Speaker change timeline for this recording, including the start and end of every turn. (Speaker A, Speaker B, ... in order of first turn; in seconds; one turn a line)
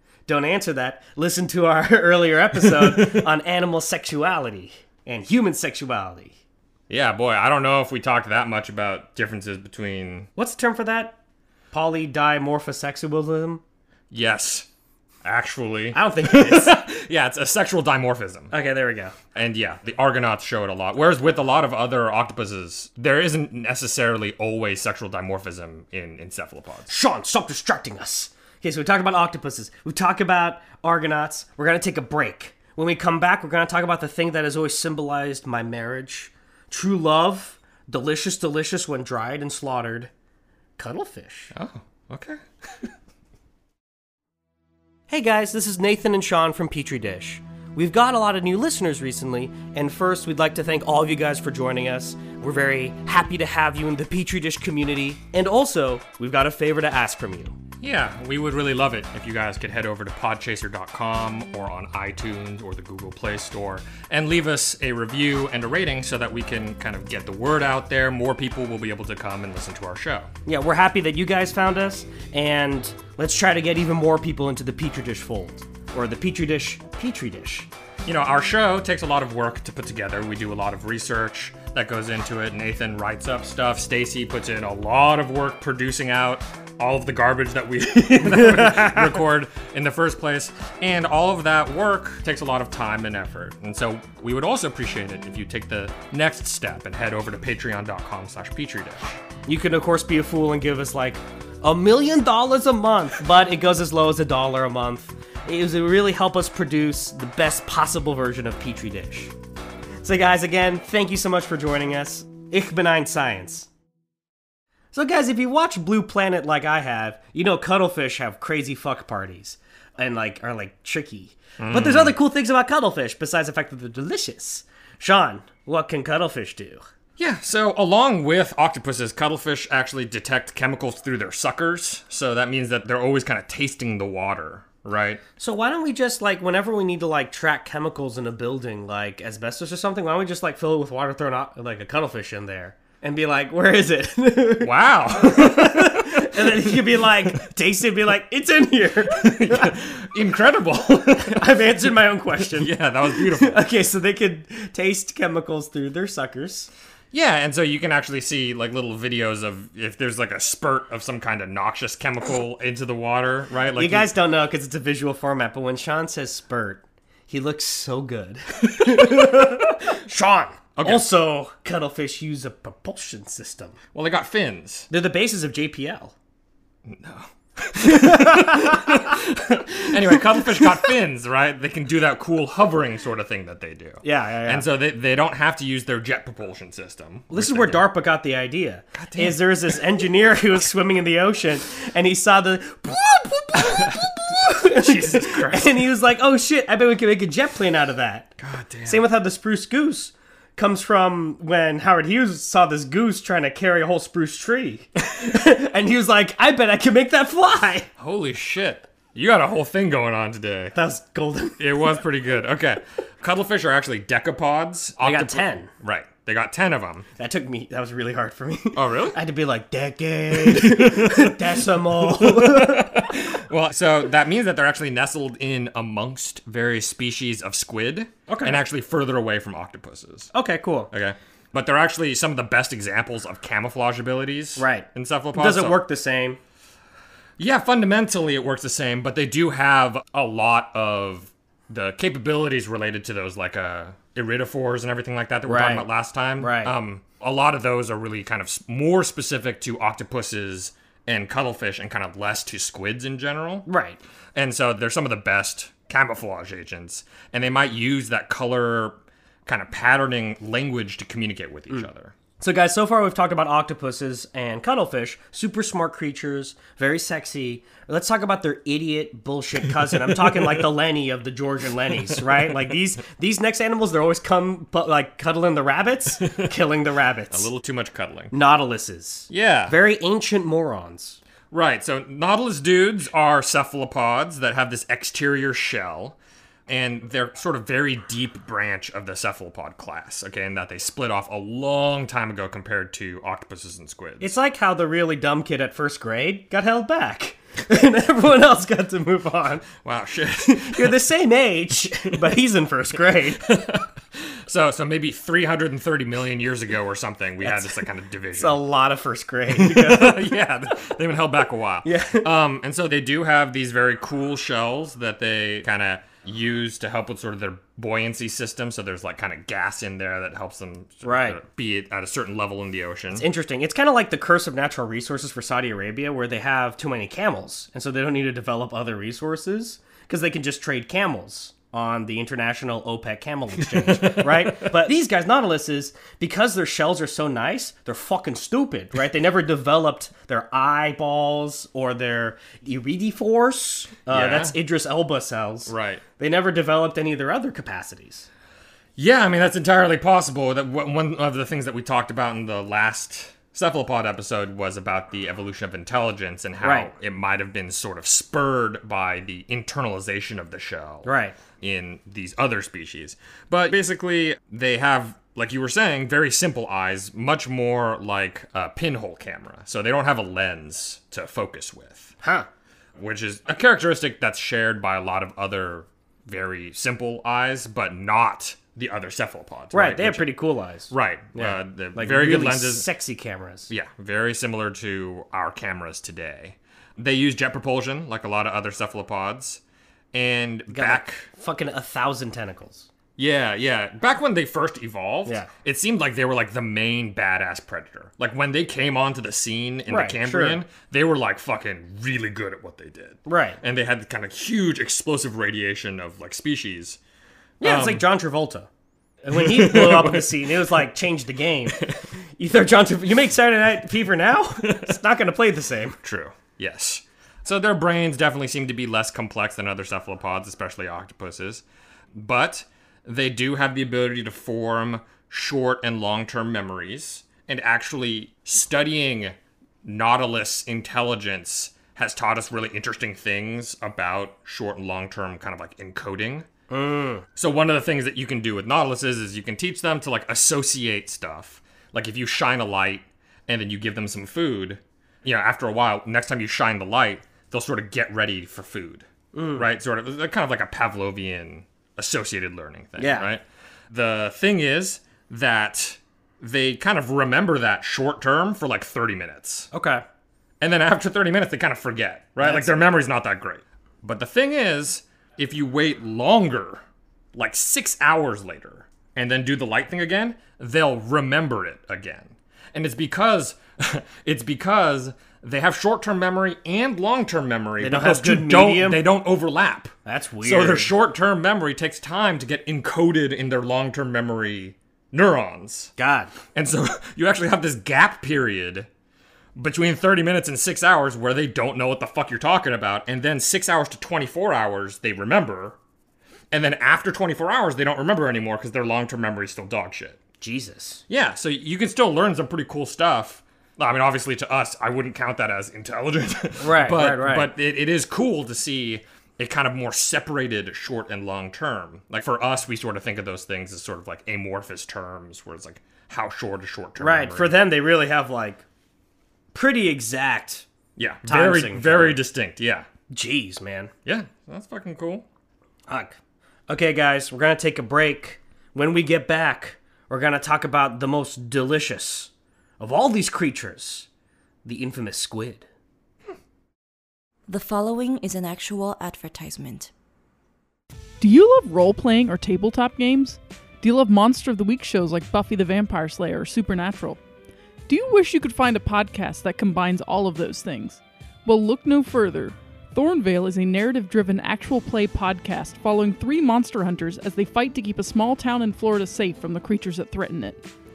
Speaker A: 0.3-6.3
Speaker B: 2.8-3.2
Speaker B: 6.9-10.3
Speaker A: 10.4-11.2
Speaker A: 11.7-13.6
Speaker B: 14.1-14.7
Speaker B: 15.2-18.5
Speaker A: 15.9-16.8
Speaker A: 18.5-19.1
Speaker B: 19.4-26.9
Speaker A: 26.9-40.1
Speaker A: 40.8-41.5
Speaker B: 41.5-42.9
Speaker A: 45.1-57.6
Speaker B: 57.8-70.3
Speaker A: 70.5-77.7
Speaker B: 78.0-99.2
Speaker A: 88.5-89.1
Speaker A: 99.5-109.3
Speaker A: 110.0-113.7
Speaker A: 114.9-126.8
Speaker B: 121.6-122.2
Speaker B: 127.2-135.2
Speaker A: 135.4-149.8
Speaker B: 144.6-147.1
Speaker B: 149.1-151.6
Speaker A: 151.2-156.7
Speaker B: 152.5-153.6
Speaker B: 157.1-164.1
Speaker A: 163.8-173.8
Speaker B: 170.8-171.1
Speaker B: 173.9-174.9
Speaker A: 174.9-176.1
Speaker B: 176.9-187.8
Speaker A: 177.9-178.9
Speaker A: 184.0-184.7
Speaker A: 187.3-198.3
Speaker B: 189.0-189.4
Speaker B: 193.6-195.8
Speaker B: 198.4-199.1
Speaker A: 198.8-207.9
Speaker B: 208.0-210.8
Speaker A: 210.8-211.7
Speaker B: 211.6-217.1
Speaker A: 215.0-215.7
Speaker A: 217.2-223.1
Speaker B: 218.7-219.2
Speaker B: 220.3-221.4
Speaker B: 222.0-230.3
Speaker A: 228.3-228.6
Speaker A: 230.3-230.9
Speaker B: 230.9-235.8
Speaker A: 234.6-236.4
Speaker B: 237.4-253.7
Speaker A: 245.4-246.8
Speaker A: 253.7-254.0
Speaker B: 254.3-262.1
Speaker A: 262.4-277.5
Speaker B: 277.3-278.3
Speaker A: 278.3-281.2
Speaker B: 279.3-279.8
Speaker B: 281.5-294.3
Speaker A: 294.2-299.7
Speaker B: 299.8-301.0
Speaker A: 300.4-303.5
Speaker B: 303.4-308.6
Speaker A: 307.4-310.4
Speaker B: 309.5-323.3
Speaker A: 311.9-312.3
Speaker A: 321.0-321.4
Speaker A: 323.1-348.3
Speaker B: 333.6-334.7
Speaker B: 344.1-344.6
Speaker B: 345.7-346.0
Speaker B: 349.0-372.2
Speaker A: 356.6-356.9
Speaker A: 361.1-361.4
Speaker A: 372.2-372.5
Speaker B: 373.0-380.3
Speaker A: 379.7-383.7
Speaker B: 380.9-382.9
Speaker B: 383.7-389.6
Speaker B: 390.1-391.3
Speaker A: 390.7-392.9
Speaker B: 393.2-407.0
Speaker A: 399.9-400.6
Speaker A: 403.3-403.6
Speaker A: 407.6-408.7
Speaker B: 407.6-408.1
Speaker A: 409.2-416.0
Speaker B: 409.3-410.7
Speaker B: 411.8-412.1
Speaker B: 416.0-436.5
Speaker A: 436.7-437.2
Speaker B: 437.4-459.7
Speaker A: 449.3-449.7
Speaker A: 453.0-453.3
Speaker A: 459.7-460.0
Speaker B: 460.6-485.9
Speaker A: 462.4-462.8
Speaker A: 477.8-479.0
Speaker A: 480.1-480.9
Speaker A: 486.0-486.3
Speaker B: 486.6-488.9
Speaker B: 489.6-495.8
Speaker B: 496.5-500.2
Speaker A: 500.4-501.0
Speaker B: 501.1-517.5
Speaker A: 506.6-507.5
Speaker A: 517.0-518.6
Speaker A: 519.5-520.7
Speaker B: 521.0-522.9
Speaker A: 521.2-522.2
Speaker A: 523.1-523.9
Speaker B: 524.0-525.3
Speaker A: 525.9-526.2
Speaker A: 526.7-534.1
Speaker A: 534.6-535.7
Speaker C: 537.5-539.9
Speaker D: 541.2-547.2
Speaker D: 547.9-560.6